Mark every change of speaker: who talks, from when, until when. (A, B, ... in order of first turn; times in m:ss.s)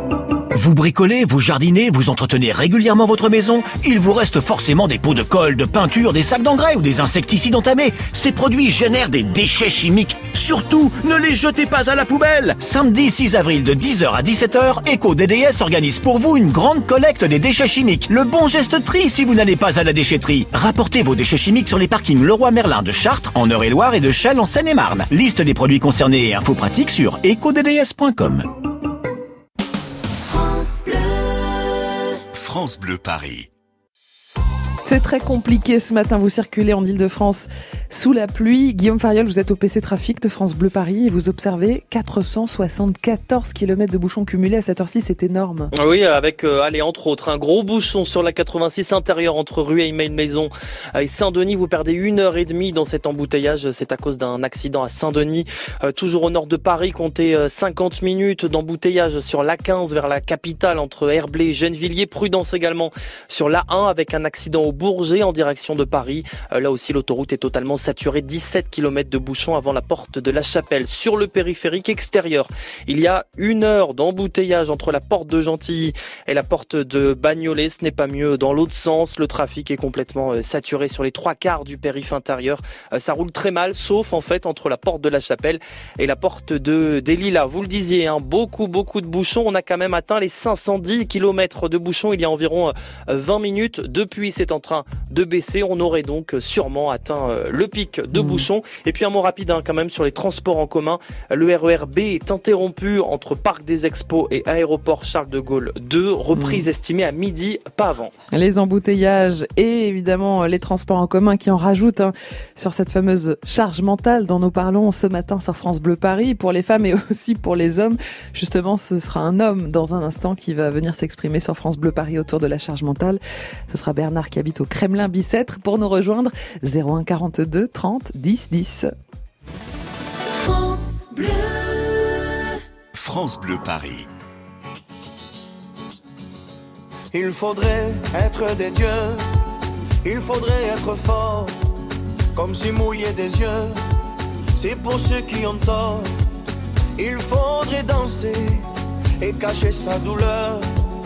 0:00.5-0:28.5 A
0:30.1-0:31.9 B
0:32.3-0:33.5 C
0:34.9-0:45.7 D
0:45.7-1:48.1 E
1:38.1-1:38.5 D
1:46.4-1:46.6 D
1:48.3-2:08.9 D
2:10.2-2:12.5 B
2:12.9-2:14.1 C
2:17.1-2:19.2 F
2:20.0-2:21.5 F
2:22.4-2:23.8 F
2:24.6-2:26.1 F
2:27.0-2:28.6 F
2:29.2-2:30.7 F